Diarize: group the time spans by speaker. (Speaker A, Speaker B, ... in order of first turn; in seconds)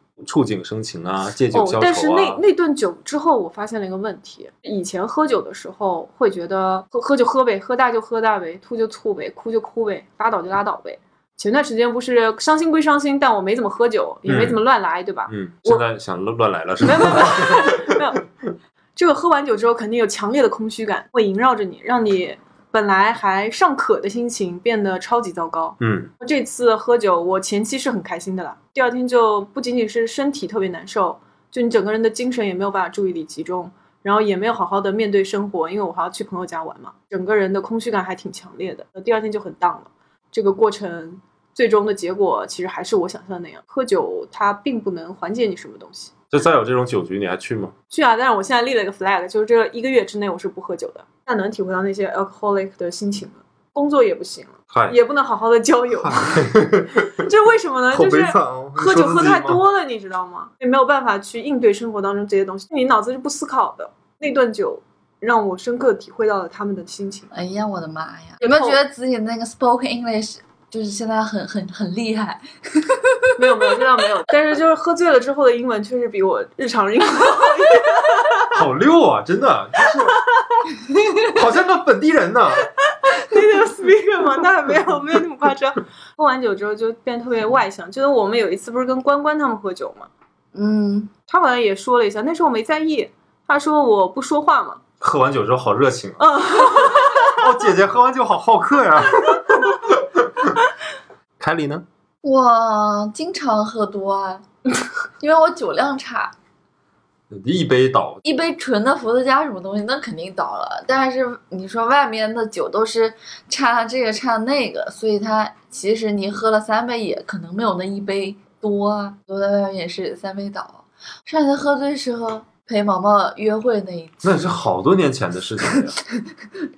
Speaker A: 0.2-2.4, 14.2-14.6, 15.3-17.8, 25.8-26.1, 46.3-47.7, 54.7-55.0, 56.0-57.1, 57.9-59.6, 78.5-80.2, 81.2-82.7, 95.0-100.6, 101.4-101.8, 107.3-108.2, 124.2-126.0
Speaker B: 1.5-15.8, 16.8-18.2, 18.9-46.1, 47.9-56.5, 57.1-67.3, 68.4-68.8, 73.4-78.5, 80.1-80.6, 82.9-90.1, 91.3-94.8, 96.2-97.4
Speaker C: 67.3-73.3, 80.9-81.2, 90.5-91.1, 102.2-104.4, 105.2-106.3, 108.2-124.2